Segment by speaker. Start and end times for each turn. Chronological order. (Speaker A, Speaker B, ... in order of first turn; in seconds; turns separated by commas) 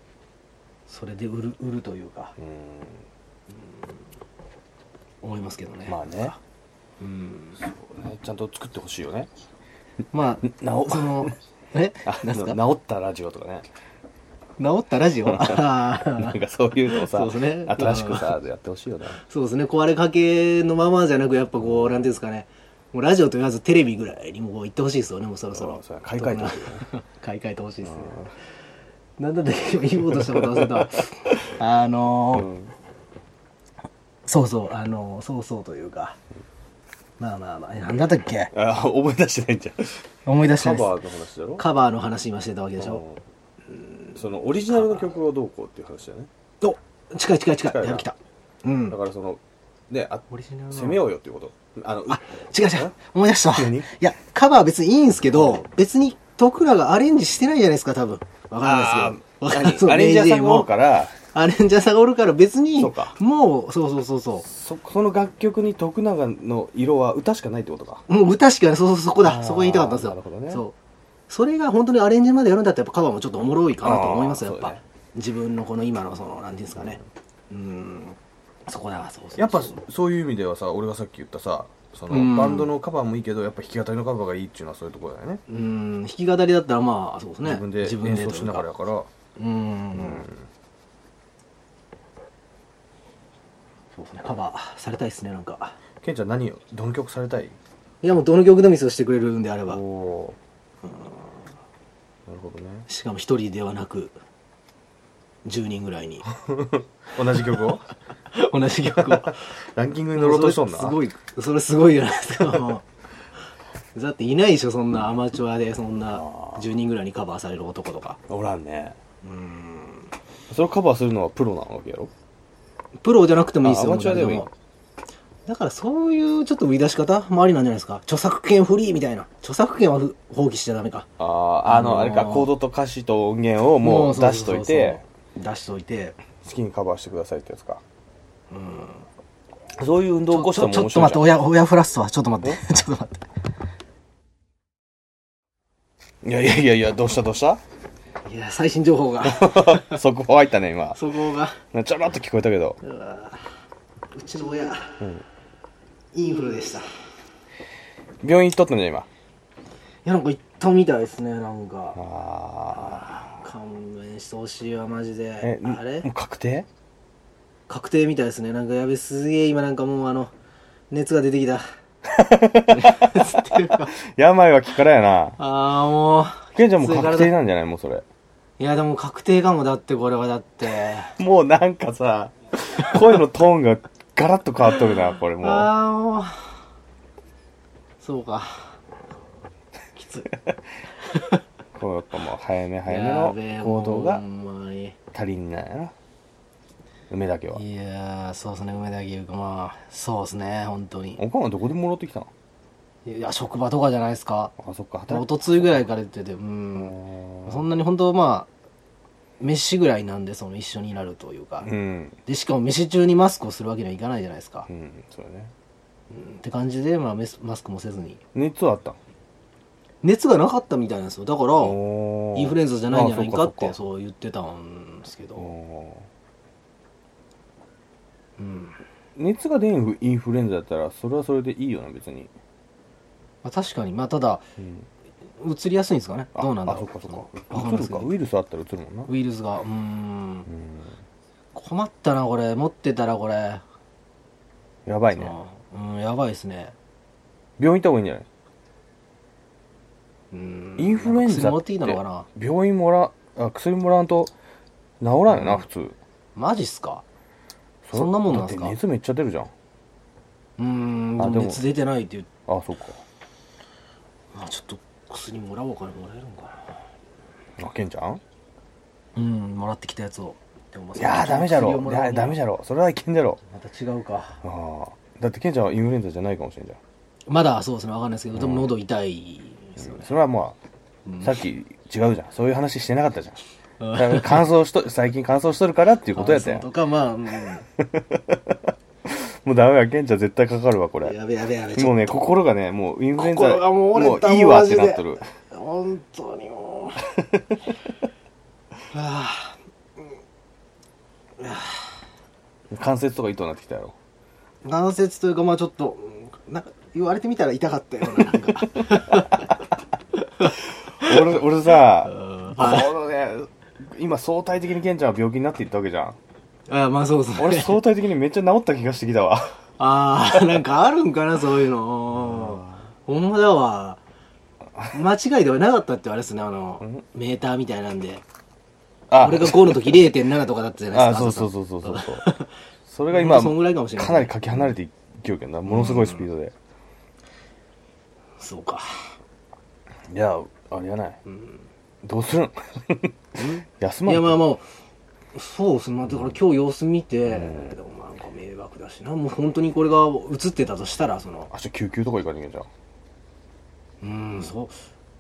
Speaker A: 0.9-2.3, Speaker B: 2.4-3.0, Speaker A: 3.5-4.0, Speaker A: 5.2-6.4, Speaker B: 5.9-6.3, Speaker A: 7.0-7.6, Speaker B: 7.6-9.3, Speaker A: 10.1-12.6, Speaker B: 10.6-11.3, Speaker B: 12.1-13.7, Speaker A: 14.6-18.3, Speaker B: 15.3-19.2, Speaker A: 19.1-28.2, Speaker B: 21.6-22.1, Speaker B: 25.5-26.8, Speaker B: 27.8-28.3, Speaker A: 29.2-32.5, Speaker B: 30.1-30.8, Speaker B: 32.3-32.7, Speaker A: 34.3-36.2, Speaker A: 37.2-38.5, Speaker B: 38.5-41.6, Speaker A: 40.3-40.9, Speaker A: 41.6-43.0, Speaker B: 42.8-43.2, Speaker A: 43.8-44.2, Speaker B: 44.1-46.3, Speaker A: 44.7-45.2, Speaker A: 46.6-49.0, Speaker B: 47.6-48.1, Speaker B: 48.9-52.9, Speaker A: 50.3-51.0, Speaker A: 52.1-60.7, Speaker B: 53.5-53.9, Speaker B: 55.3-55.6, Speaker B: 58.6-61.1, Speaker A: 61.3-64.5, Speaker B: 62.8-63.2, Speaker B: 64.4-68.0, Speaker A: 68.1-70.8, Speaker B: 69.2-70.6, Speaker A: 71.3-77.0, Speaker B: 73.8-74.8, Speaker A: 77.5-79.8, Speaker B: 79.4-85.4, Speaker A: 82.1-82.7, Speaker A: 85.5-88.7, Speaker B: 87.4-89.1, Speaker A: 89.4-90.3, Speaker B: 90.0-90.4, Speaker A: 94.0-95.8, Speaker B: 96.0-97.6, Speaker A: 98.0-99.8, Speaker B: 99.7-100.4, Speaker A: 100.8-101.5, Speaker B: 102.3-102.9, Speaker A: 102.9-104.2, Speaker A: 105.5-106.3, Speaker B: 106.4-107.8, Speaker A: 107.5-107.8, Speaker A: 108.3-109.6, Speaker B: 109.0-111.0, Speaker A: 110.2-112.8, Speaker A: 114.0-118.2, Speaker B: 116.1-116.7, Speaker B: 118.3-119.0, Speaker A: 119.2-120.1, Speaker B: 120.5-122.1, Speaker A: 123.0-124.5, Speaker B: 123.6-124.5, Speaker A: 125.5-131.1, Speaker B: 131.2-135.0, Speaker A: 131.6-132.5, Speaker A: 133.8-136.2, Speaker B: 136.4-137.8, Speaker A: 138.5-139.1, Speaker B: 139.8-141.3, Speaker A: 140.3-143.3, Speaker B: 146.2-147.6, Speaker A: 148.2-150.0, Speaker B: 149.2-151.0, Speaker A: 151.0-151.6, Speaker B: 151.7-152.8, Speaker A: 152.8-153.5, Speaker A: 154.1-155.0, Speaker B: 155.0-155.2, Speaker A: 156.1-156.9, Speaker B: 158.2-159.1, Speaker A: 160.1-162.0, Speaker B: 162.0-163.4, Speaker A: 162.8-166.1, Speaker B: 165.4-166.7, Speaker A: 167.7-170.3, Speaker A: 170.9-171.6, Speaker B: 172.1-175.4, Speaker A: 172.7-173.9, Speaker A: 175.4-177.3, Speaker B: 176.6-178.0, Speaker A: 178.6-181.2, Speaker B: 181.1-185.7, Speaker A: 184.7-186.6, Speaker A: 188.0-188.8, Speaker A: 189.9-190.3, Speaker B: 191.8-194.2, Speaker A: 192.9-195.0, Speaker B: 195.1-195.9, Speaker B: 197.1-197.6, Speaker A: 197.5-201.2, Speaker B: 201.2-202.3, Speaker A: 203.1-204.5, Speaker B: 204.6-205.9, Speaker A: 205.1-208.5, Speaker B: 206.8-207.7, Speaker A: 209.4-211.7, Speaker B: 211.6-212.2, Speaker A: 212.3-214.7, Speaker B: 214.7-215.5, Speaker A: 216.1-218.2, Speaker B: 218.3-219.0, Speaker A: 220.0-221.8, Speaker B: 221.6-223.8, Speaker A: 222.3-225.5, Speaker B: 225.4-226.1, Speaker A: 228.4-228.8, Speaker B: 229.2-232.3, Speaker A: 233.4-234.5, Speaker B: 234.6-234.9, Speaker A: 235.4-238.1, Speaker B: 236.3-239.1, Speaker A: 239.1-240.5, Speaker B: 240.5-240.9, Speaker A: 241.6-243.6, Speaker B: 244.9-245.3, Speaker A: 245.1-246.8, Speaker B: 247.6-248.3, Speaker A: 250.3-252.3, Speaker B: 250.8-254.3, Speaker B: 255.0-256.0, Speaker A: 255.3-255.6, Speaker A: 256.4-257.0, Speaker B: 257.9-259.5, Speaker A: 257.9-258.8, Speaker A: 260.6-262.3, Speaker B: 261.2-261.7, Speaker B: 262.5-263.0, Speaker A: 264.3-266.9, Speaker B: 267.6-268.2, Speaker A: 269.2-272.4, Speaker B: 271.0-273.4, Speaker A: 273.5-274.4, Speaker B: 274.4-276.8, Speaker A: 277.3-280.1, Speaker B: 278.3-278.7, Speaker B: 279.8-280.6, Speaker A: 281.1-281.4, Speaker B: 281.2-283.4, Speaker A: 283.8-284.5, Speaker B: 283.9-286.7, Speaker A: 286.1-287.6, Speaker B: 287.8-291.2, Speaker A: 291.1-292.2, Speaker B: 291.7-295.3, Speaker A: 293.2-297.1, Speaker A: 298.9-300.1, Speaker A: 301.4-302.0, Speaker B: 302.7-303.9, Speaker A: 304.6-309.5, Speaker A: 310.4-311.3, Speaker B: 311.0-316.2, Speaker A: 312.0-312.9, Speaker A: 316.7-317.8, Speaker B: 317.4-319.6, Speaker A: 319.8-324.0, Speaker B: 322.2-322.8, Speaker A: 324.9-328.2, Speaker B: 329.1-330.1, Speaker A: 329.2-332.6, Speaker B: 330.9-332.3, Speaker B: 332.9-336.5, Speaker A: 333.1-334.7, Speaker A: 335.7-336.3, Speaker A: 338.4-339.1, Speaker B: 340.1-341.2, Speaker A: 341.3-341.6, Speaker B: 342.0-343.1, Speaker A: 343.4-344.7, Speaker B: 343.8-344.4, Speaker A: 345.3-351.5, Speaker B: 347.3-347.8, Speaker B: 351.5-352.7, Speaker A: 354.0-354.8